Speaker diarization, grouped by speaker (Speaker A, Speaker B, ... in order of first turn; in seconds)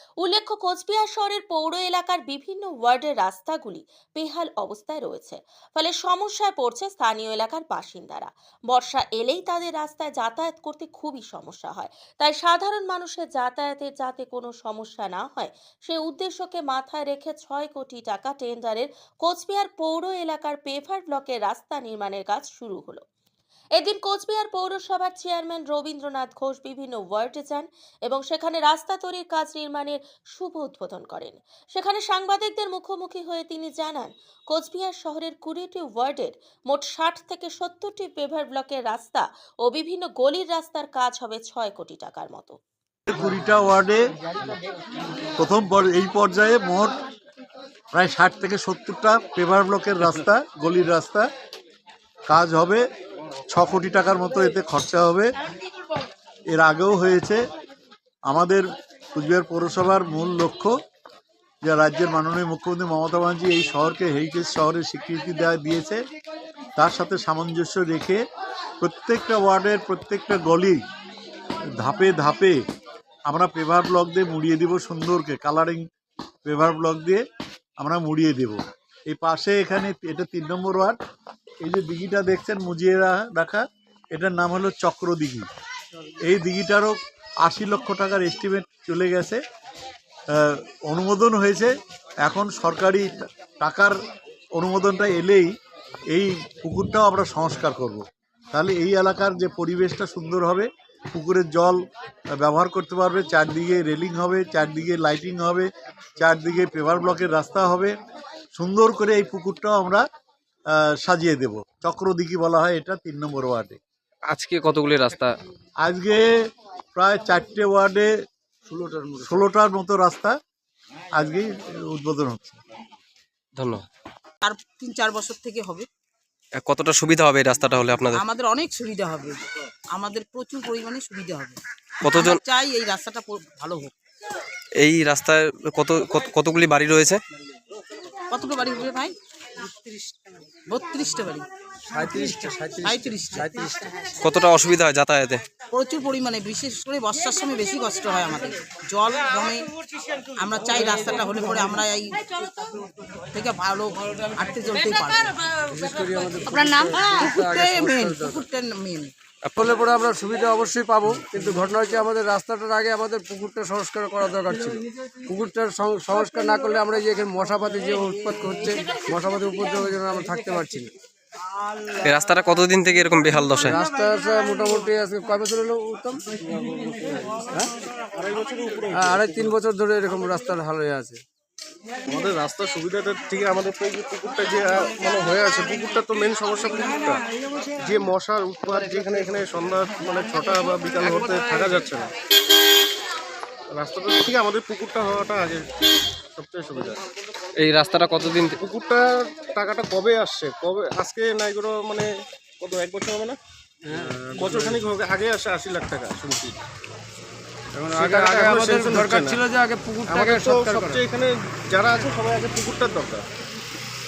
Speaker A: 0.2-23.0, 23.8-42.6
Speaker B: 43.1-44.0, 45.4-47.0, 47.9-51.3, 52.3-52.8, 53.5-55.3, 56.5-57.4, 58.3-60.7, 61.6-66.0, 66.8-68.2, 68.8-70.8, 71.8-72.6, 73.3-75.8, 76.5-77.2, 77.8-81.0, 81.6-85.5, 86.2-89.4, 90.3-91.7, 92.2-94.0, 94.6-95.5, 96.1-101.8, 102.4-107.9, 108.6-110.0, 110.8-113.8, 115.8-116.2, 117.0-118.1, 119.2-120.3, 121.1-122.6
Speaker C: 114.3-115.4, 123.6-123.9, 126.6-128.2, 132.0-132.4, 134.8-137.2, 144.2-145.4, 159.4-159.8, 172.0-173.8, 197.6-198.6
Speaker D: 118.7-119.4, 141.9-143.9, 155.7-158.5, 159.6-170.9, 173.7-177.7, 178.9-181.2, 203.9-204.8, 207.8-211.1
Speaker E: 124.4-125.9, 128.1-129.4, 129.9-133.9, 138.3-139.1, 140.7-141.5, 142.8-143.5, 145.7-149.7, 150.3-152.8, 153.3-155.5, 156.5-159.1
Speaker F: 178.1-179.5, 182.1-187.2, 187.8-192.1, 193.7-195.6, 196.4-197.0, 198.6-202.1, 202.6-203.4, 203.9-206.6, 207.8-209.4, 210.1-213.2